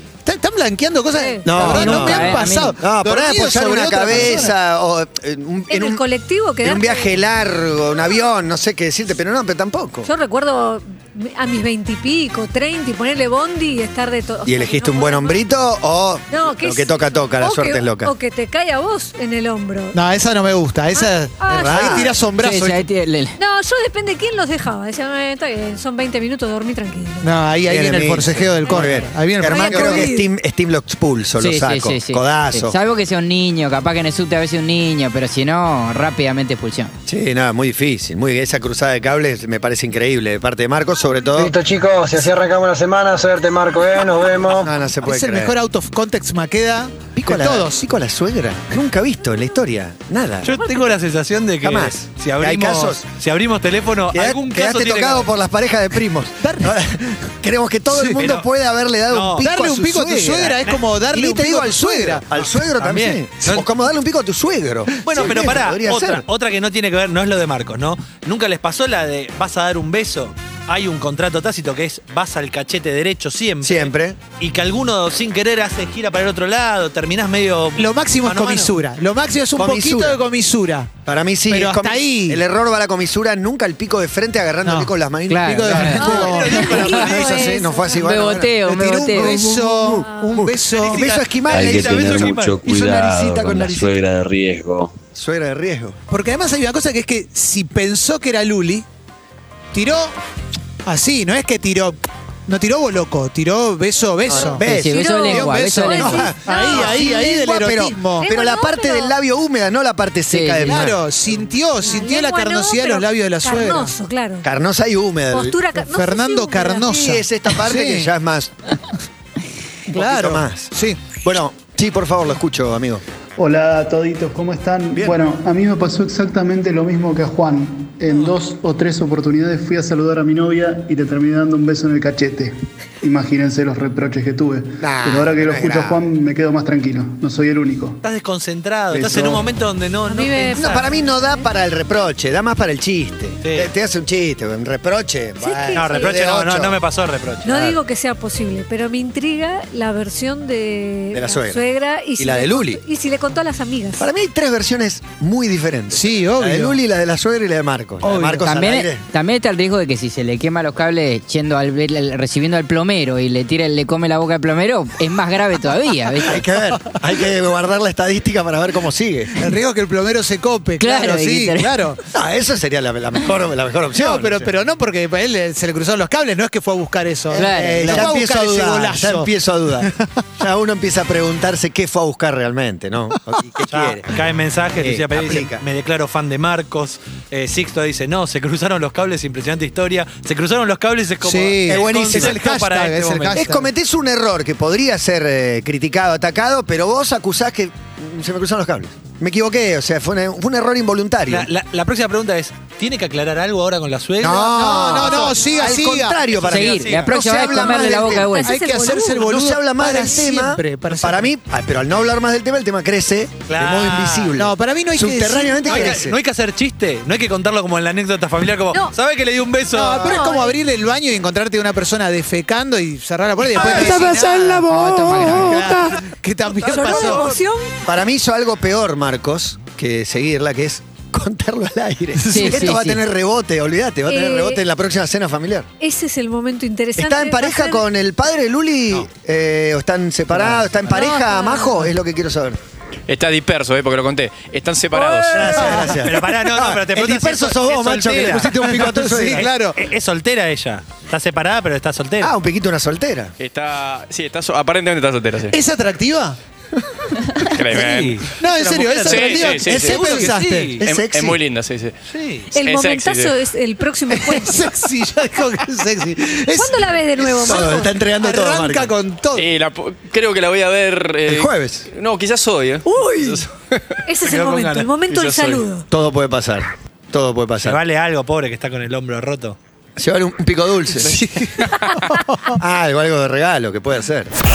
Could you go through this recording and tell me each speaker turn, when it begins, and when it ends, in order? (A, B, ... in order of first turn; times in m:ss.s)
0:00.2-0:04.5 A
0:01.2-0:01.6 B
0:01.4-0:06.0 C
0:01.6-0:02.7 D
0:05.7-0:07.2 B
0:06.6-0:10.1 C
0:10.0-0:15.4 B
0:14.4-0:18.1 C
0:16.3-0:20.0 B
0:19.9-0:22.8 A
0:20.9-0:22.1 B
0:21.5-0:22.2 C
0:22.4-0:23.4 D
0:23.4-0:27.3 B
0:27.2-0:30.1 A
0:27.6-0:32.8 C
0:28.6-0:30.3 B
0:31.4-0:36.9 D
0:37.1-0:41.5 C
0:41.4-0:44.7 E
0:44.6-0:45.5 C
0:45.0-0:47.8 A
0:47.2-0:50.5 C
0:50.4-0:55.3 F
0:51.6-0:53.0 C
0:54.1-1:00.5 C
0:56.4-0:56.7 A
0:57.9-0:58.3 A
0:58.0-0:58.4 F
0:59.1-0:59.5 F
0:59.4-1:02.2 A
1:00.5-1:00.8 F
1:01.1-1:06.2 C
1:02.7-1:03.6 F
1:05.0-1:18.7 F
1:13.6-1:14.2 C
1:17.8-1:20.9 A
1:19.5-1:20.2 C
1:21.0-1:26.0 C
1:21.5-1:22.4 A
1:24.6-1:27.7 A
1:25.3-1:27.2 D
1:26.0-1:28.0 B
1:26.0-1:27.4 F
1:27.3-1:28.6 C
1:28.0-1:29.4 D
1:28.6-1:31.0 A
1:29.2-1:34.0 C
1:30.0-1:30.3 B
1:30.7-1:32.6 F
1:31.5-1:34.9 G
1:35.1-1:36.0 C
1:36.1-1:38.8 A
1:39.7-1:40.1 A
1:40.8-1:44.7 A
1:44.3-1:51.0 C
1:44.3-1:46.2 D
1:44.9-1:47.4 B
1:45.3-1:48.3 A
1:48.2-1:49.1 B
1:50.3-1:50.9 D
1:50.6-1:53.9 A
1:51.8-1:54.5 B
1:54.4-1:55.6 C
1:55.3-1:56.8 B
1:55.8-1:58.1 A
1:56.8-1:58.5 C
1:59.9-2:01.1 A
1:59.9-2:00.7 C
2:01.2-2:03.0 C
2:03.4-2:18.0 H
2:08.1-2:08.3 F
2:14.8-2:16.0 C
2:18.0-2:20.8 F
2:18.9-2:19.4 H
2:20.1-2:21.5 B
2:20.5-2:26.8 C
2:23.4-2:23.7 F
2:25.4-2:26.1 B
2:25.7-2:27.8 F
2:27.4-2:34.1 B
2:31.1-2:31.6 C
2:32.2-2:32.8 C
2:34.0-2:39.0 C
2:35.9-2:36.8 A
2:38.0-2:38.5 A
2:38.4-2:46.4 D
2:46.2-2:49.5 C
2:49.4-2:52.0 A
2:50.8-2:51.9 D
2:52.1-2:54.5 C
2:53.9-2:59.3 A
2:57.3-3:04.1 C
2:57.3-2:58.1 D
3:03.7-3:13.4 F
3:04.8-3:05.6 C
3:11.2-3:13.7 A
3:11.7-3:12.4 C
3:13.3-3:21.5 C
3:21.3-3:25.3 F
3:24.2-3:28.3 C
3:24.3-3:26.2 A
3:26.2-3:27.2 F
3:26.4-3:28.8 D
3:27.6-3:29.2 B
3:28.4-3:31.3 A
3:29.1-3:36.2 C
3:33.5-3:34.4 F
3:34.3-3:36.0 A
3:35.6-3:40.2 F
3:39.7-3:47.4 A
3:40.0-3:40.6 B
3:43.6-3:43.9 F
3:43.6-3:44.0 C
3:44.0-3:45.8 D
3:45.2-3:45.7 F
3:46.7-3:47.6 B
3:46.7-3:47.3 F
3:47.8-3:55.7 C
3:52.2-3:52.7 A
3:52.3-3:53.0 D
3:54.1-3:54.6 B
3:55.8-3:57.8 B
3:57.0-4:02.6 C
4:00.3-4:00.7 D
4:00.9-4:01.6 B
4:03.1-4:05.6 I
4:05.3-4:09.5 C
4:05.3-4:12.3 F
4:05.6-4:06.0 A
4:08.2-4:09.8 A
4:12.2-4:13.3 C
4:13.4-4:15.6 I
4:15.5-4:16.4 A
4:16.7-4:17.3 C
4:17.4-4:18.2 I
4:17.7-4:20.8 F
4:18.4-4:20.7 A
4:19.0-4:20.0 I
4:19.6-4:20.0 C
4:20.8-4:21.4 C
4:20.8-4:21.9 I
4:22.1-4:22.5 F
4:22.5-4:24.6 B
4:22.6-4:23.3 I
4:24.1-4:29.4 A
4:26.6-4:27.9 B
4:27.4-4:28.9 C
4:29.3-4:33.8 I
4:31.3-4:31.9 C
4:32.9-4:33.4 A
4:34.0-4:35.8 B
4:34.2-4:34.9 F
4:35.1-4:35.6 I
4:35.9-4:37.8 C
4:37.6-4:39.6 F
4:40.0-4:41.1 C
4:41.0-4:42.6 A
4:41.0-4:42.0 I
4:42.6-4:44.3 C